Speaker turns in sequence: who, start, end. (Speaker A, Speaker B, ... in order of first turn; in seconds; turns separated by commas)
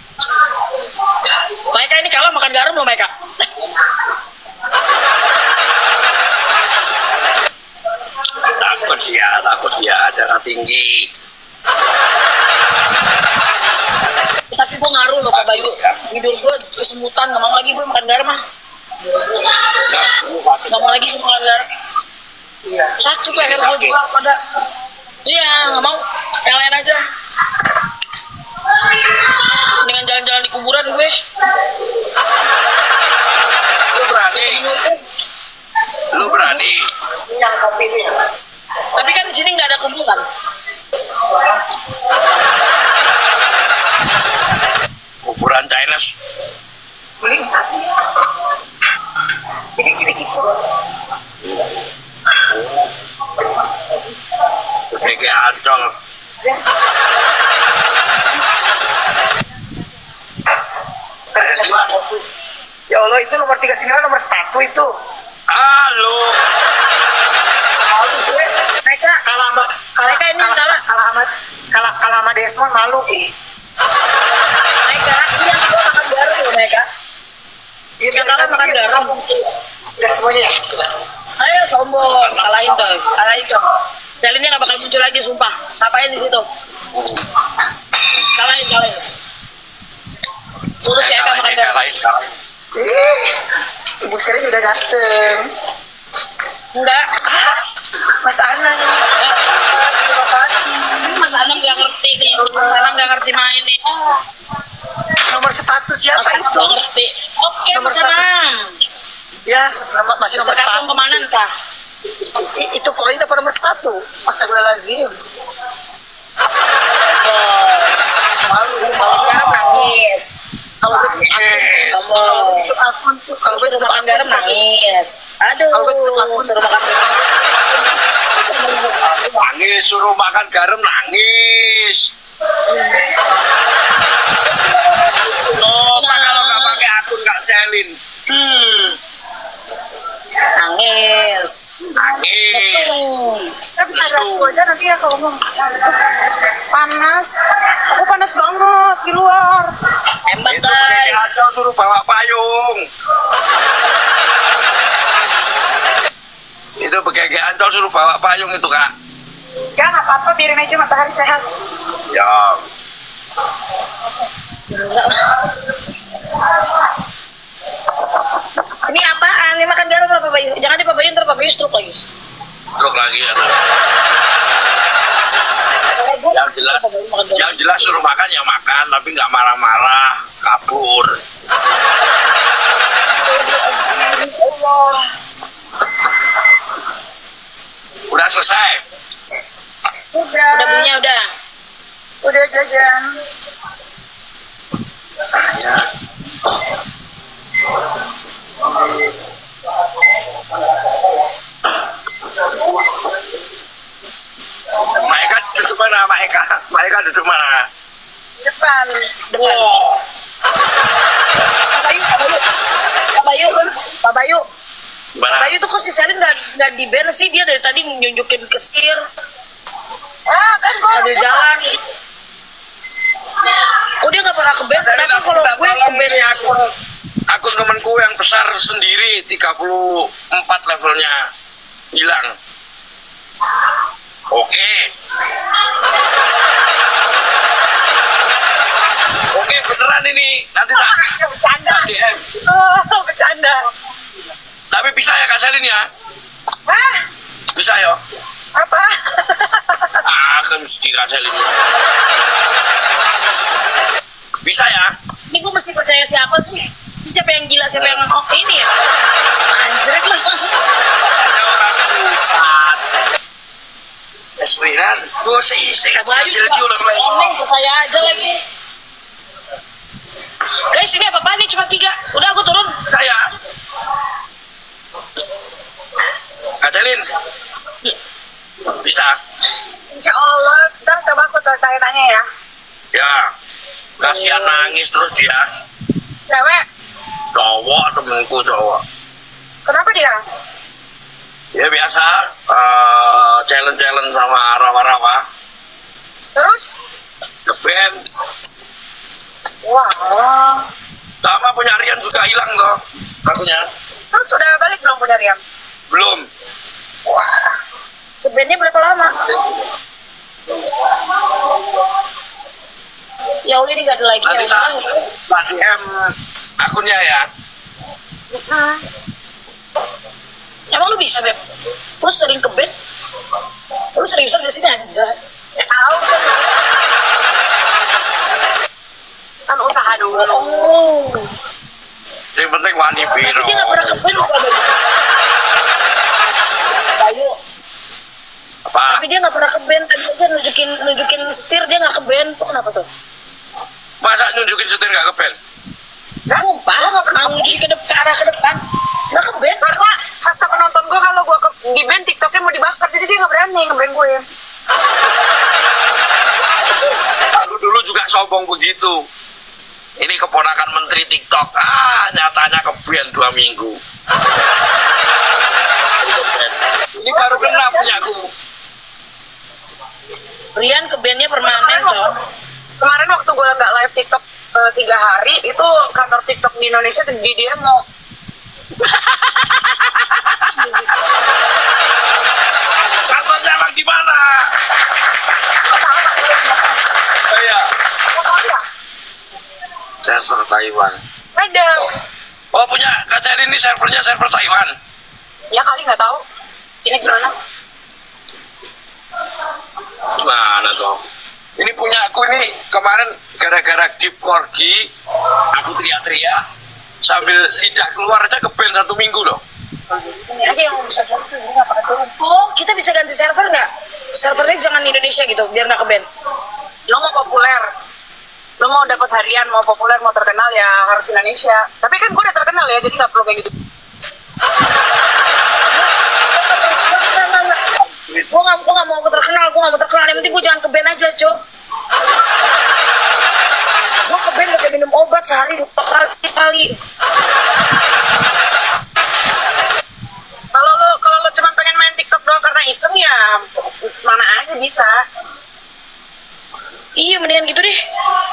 Speaker A: 1.7-3.1, Speaker B: 8.4-11.1, Speaker A: 14.5-18.4, Speaker B: 15.3-16.0, Speaker B: 19.7-21.0, Speaker A: 20.7-21.6, Speaker C: 22.6-22.9, Speaker A: 23.0-24.4, Speaker B: 23.3-23.9, Speaker A: 25.2-27.0, Speaker A: 29.4-31.2, Speaker B: 33.9-34.6, Speaker A: 34.3-35.0, Speaker B: 36.1-36.9, Speaker A: 36.2-36.5, Speaker C: 37.3-38.1, Speaker A: 38.9-40.2, Speaker B: 45.2-46.1, Speaker C: 47.2-47.8, Speaker C: 49.8-50.5, Speaker B: 52.5-52.9, Speaker B: 54.9-55.9, Speaker C: 61.3-62.3, Speaker B: 61.4-61.9, Speaker C: 62.9-64.9, Speaker B: 65.5-66.4, Speaker C: 67.9-68.5, Speaker A: 68.8-69.2, Speaker C: 69.2-73.3, Speaker A: 70.0-70.8, Speaker A: 74.8-76.8, Speaker C: 78.0-79.4, Speaker A: 78.1-79.2, Speaker C: 80.0-80.5, Speaker A: 81.4-83.7, Speaker A: 84.2-86.5, Speaker B: 86.9-87.2, Speaker A: 88.3-89.0, Speaker A: 90.8-91.8, Speaker B: 90.9-92.3, Speaker C: 92.7-93.3, Speaker C: 94.0-95.5, Speaker A: 96.7-97.2, Speaker C: 98.2-101.1, Speaker A: 99.2-99.5, Speaker A: 101.0-104.2, Speaker C: 102.4-103.1, Speaker C: 105.2-106.8, Speaker A: 106.2-108.8, Speaker C: 107.7-108.2, Speaker C: 109.5-111.2, Speaker A: 110.3-111.5, Speaker C: 112.2-115.2, Speaker A: 117.1-118.0, Speaker C: 118.4-120.0, Speaker A: 118.8-120.4, Speaker C: 120.8-124.6, Speaker B: 121.1-122.0, Speaker A: 121.9-122.7, Speaker A: 123.5-127.0, Speaker C: 125.7-128.0, Speaker A: 128.3-129.4, Speaker B: 129.4-132.1, Speaker A: 132.7-133.0, Speaker A: 134.4-136.8, Speaker B: 135.5-139.0, Speaker A: 140.6-141.8, Speaker B: 142.1-143.0, Speaker A: 142.5-143.5, Speaker D: 143.8-149.7, Speaker B: 143.9-144.5, Speaker A: 150.3-151.3, Speaker B: 150.4-152.8, Speaker B: 156.8-158.9, Speaker D: 159.8-161.5, Speaker B: 162.1-162.6, Speaker A: 164.7-165.4, Speaker A: 168.8-172.0, Speaker B: 172.8-173.6, Speaker A: 175.9-177.9, Speaker B: 176.3-176.8, Speaker B: 177.3-181.2, Speaker A: 183.2-184.9, Speaker B: 188.1-188.8, Speaker D: 190.1-190.9, Speaker A: 190.5-191.2, Speaker D: 192.2-193.2, Speaker B: 195.3-195.9, Speaker B: 204.8-207.7, Speaker D: 208.4-209.7, Speaker B: 209.3-210.0, Speaker A: 211.7-212.4, Speaker A: 213.2-214.4, Speaker B: 215.1-215.6, Speaker A: 215.3-219.0, Speaker D: 220.3-221.5, Speaker A: 220.9-221.8, Speaker A: 224.0-226.5, Speaker B: 224.7-226.6, Speaker B: 227.3-231.2, Speaker B: 231.9-232.3, Speaker B: 234.3-234.9, Speaker B: 239.3-241.0, Speaker D: 240.7-243.6, Speaker B: 241.6-242.2, Speaker B: 244.7-245.8, Speaker D: 246.7-247.0, Speaker B: 247.5-248.0, Speaker D: 248.5-250.0, Speaker B: 250.0-251.5, Speaker B: 254.4-254.9, Speaker A: 255.3-258.7, Speaker B: 257.7-258.0, Speaker A: 259.5-260.5, Speaker B: 261.0-262.8, Speaker B: 264.4-267.4, Speaker A: 266.0-268.4, Speaker A: 270.7-272.8, Speaker B: 272.9-273.3, Speaker B: 276.6-277.1, Speaker B: 278.7-279.2, Speaker D: 279.9-282.2, Speaker B: 282.9-283.3, Speaker B: 284.0-285.4, Speaker D: 284.1-284.6, Speaker D: 286.3-286.6, Speaker B: 287.3-288.8, Speaker D: 289.6-290.2, Speaker B: 291.5-295.2, Speaker D: 296.3-296.7, Speaker B: 297.4-297.9, Speaker D: 299.6-300.7, Speaker B: 301.2-303.6, Speaker D: 304.1-305.4, Speaker B: 305.9-306.2, Speaker D: 307.1-307.4, Speaker A: 308.2-309.1, Speaker A: 313.4-315.0, Speaker B: 314.2-317.2, Speaker D: 318.3-318.9, Speaker A: 320.7-321.4, Speaker A: 322.0-322.7, Speaker A: 323.9-325.2, Speaker D: 325.6-326.5, Speaker D: 329.5-330.4, Speaker A: 330.1-331.3, Speaker B: 332.3-334.0, Speaker A: 333.2-334.7, Speaker A: 337.0-337.4, Speaker B: 338.7-339.0, Speaker A: 338.9-342.9, Speaker B: 344.0-345.4, Speaker D: 346.3-347.6, Speaker A: 346.3-348.6, Speaker A: 349.1-349.6, Speaker D: 349.6-354.3, Speaker B: 357.3-358.9, Speaker B: 360.0-363.8, Speaker B: 366.0-368.3, Speaker D: 367.1-368.1, Speaker A: 370.5-372.1, Speaker D: 371.4-372.1, Speaker D: 372.8-377.8, Speaker B: 378.8-380.8, Speaker B: 383.1-384.5, Speaker D: 385.6-386.8, Speaker B: 387.3-387.7, Speaker D: 388.1-388.6, Speaker B: 390.0-391.0, Speaker D: 391.3-391.9, Speaker B: 392.5-394.7, Speaker D: 395.5-396.2, Speaker D: 396.8-397.3, Speaker B: 400.1-401.0, Speaker B: 401.6-404.9, Speaker B: 405.5-406.4, Speaker B: 407.0-409.4, Speaker D: 409.9-412.1, Speaker A: 412.1-416.1, Speaker D: 416.9-417.7, Speaker D: 418.6-423.5, Speaker A: 425.7-427.6, Speaker B: 428.0-428.3, Speaker A: 428.3-431.4, Speaker A: 434.1-436.8, Speaker D: 440.5-445.0, Speaker A: 447.0-447.8